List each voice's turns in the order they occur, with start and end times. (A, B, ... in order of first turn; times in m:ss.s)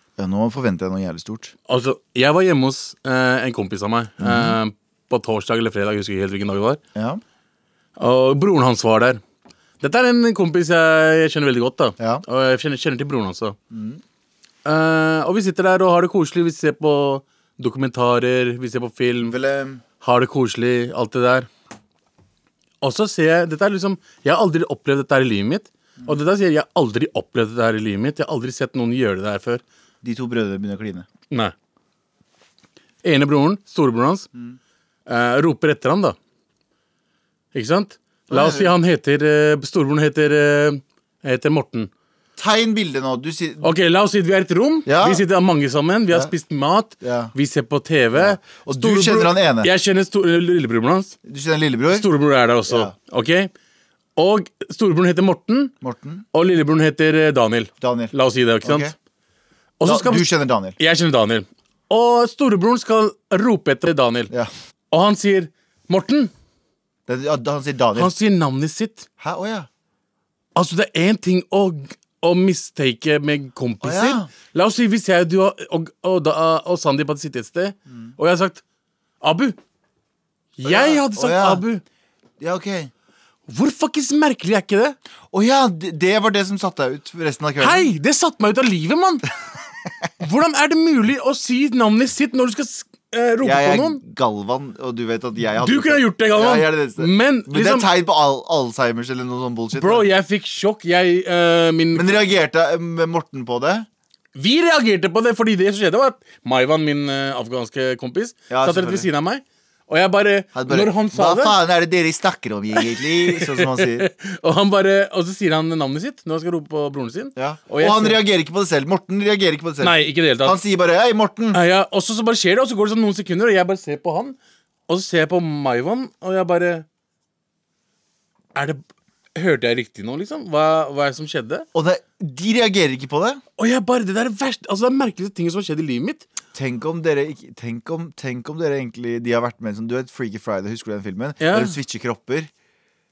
0:00.2-0:01.5 A
0:01.7-0:06.8 B
0:04.2-0:04.6 A
0:06.9-0:07.2 A
0:08.0-0:09.2 B
0:09.8-0:13.6 B
0:12.0-0:12.2 A
0:13.7-0:14.0 A
0:14.6-0:19.4 B
0:19.3-0:19.8 A
0:20.0-0:21.5 B
0:22.8-0:29.6 B
0:30.0-0:31.1 A
0:33.0-0:34.3 B
0:35.1-0:36.2 B
0:37.5-0:41.9 B
0:38.3-0:38.8 A
0:42.4-0:43.7 A
0:43.6-0:51.2 B
0:44.8-0:45.2 A
0:47.0-0:47.3 A
0:48.1-0:49.7 A
0:51.2-0:52.0 A
0:51.9-0:53.5 B
0:52.7-0:52.9 A
0:54.2-0:55.7 B
0:55.8-0:56.2 A
0:56.3-0:58.9 B
0:57.8-0:58.9 A
0:59.8-1:04.3 B
0:59.8-1:00.8 A
1:04.9-1:06.3 B
1:07.1-1:08.1 A
1:07.9-1:09.1 B
1:09.2-1:09.7 A
1:10.5-1:18.6 B
1:13.8-1:14.3 A
1:19.2-1:19.6 B
1:20.6-1:21.8 B
1:20.6-1:21.6 A
1:22.4-1:22.9 A
1:23.5-1:25.0 B
1:25.3-1:27.9 A
1:27.6-1:29.3 B
1:30.2-1:34.0 B
1:33.4-1:40.0 A
1:35.6-1:37.9 B
1:39.7-1:42.2 B
1:41.9-1:43.9 A
1:44.3-1:51.6 B
1:48.5-1:49.1 A
1:50.5-1:54.1 A
1:52.8-1:58.2 B
1:57.4-2:01.6 A
1:59.8-2:00.6 B
2:01.5-2:04.4 B
2:04.9-2:06.8 B
2:08.5-2:08.8 B
2:09.3-2:11.6 B
2:11.7-2:13.4 A
2:13.6-2:16.2 B
2:16.5-2:22.5 A
2:21.4-2:21.8 B